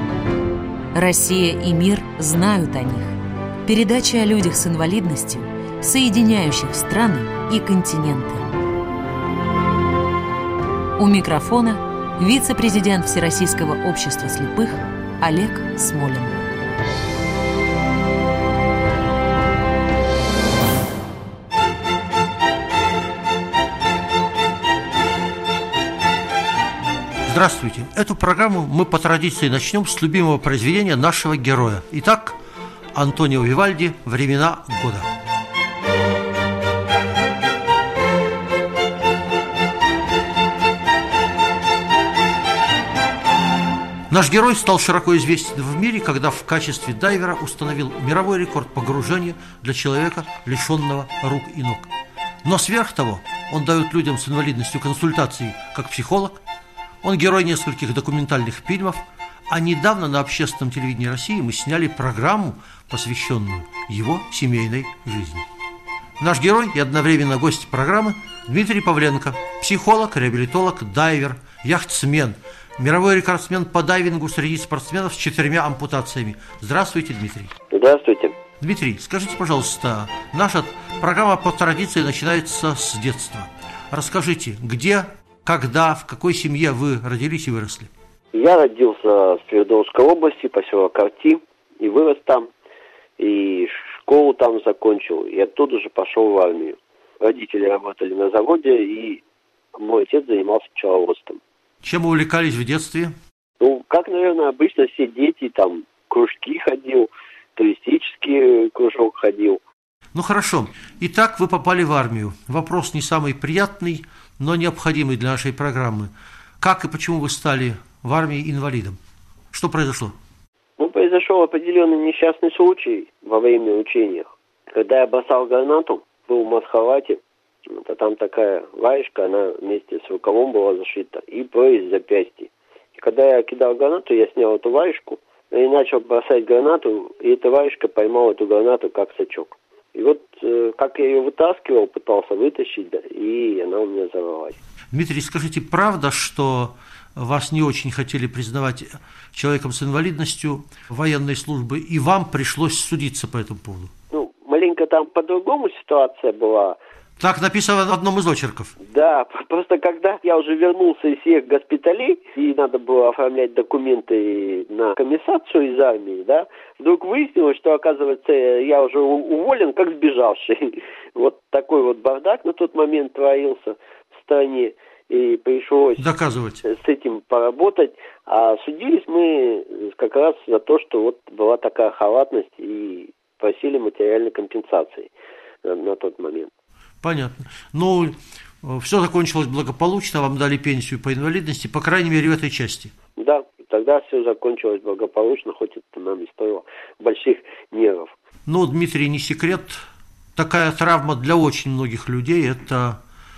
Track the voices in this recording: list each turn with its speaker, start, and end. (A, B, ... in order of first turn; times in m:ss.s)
0:00.9-0:03.2 A
0:03.7-0:08.5 A
0:11.0-0:16.4 A
0:27.2-0:32.4 B
0:33.0-0:35.1 B
0:44.1-0:51.9 B
0:52.4-0:56.4 B
0:57.0-1:05.4 B
1:06.2-1:17.5 B
1:17.7-1:18.4 C
1:18.6-1:27.9 B
1:28.3-1:32.5 C
1:33.2-1:39.2 C
1:39.8-1:41.4 C
1:41.8-1:43.1 B
1:43.6-1:49.6 C
1:50.1-1:59.0 B
1:59.5-2:00.2 B
2:00.8-2:24.6 C
2:24.9-2:33.9 B
2:34.1-2:36.8 C
2:37.2-2:38.8 B
2:38.8-2:56.0 C
2:56.0-2:56.6 B
2:56.6-3:05.1 C
3:05.6-3:06.5 C
3:07.0-3:12.9 B
3:13.2-3:18.1 C
3:18.5-3:19.8 B
3:20.4-3:23.0 B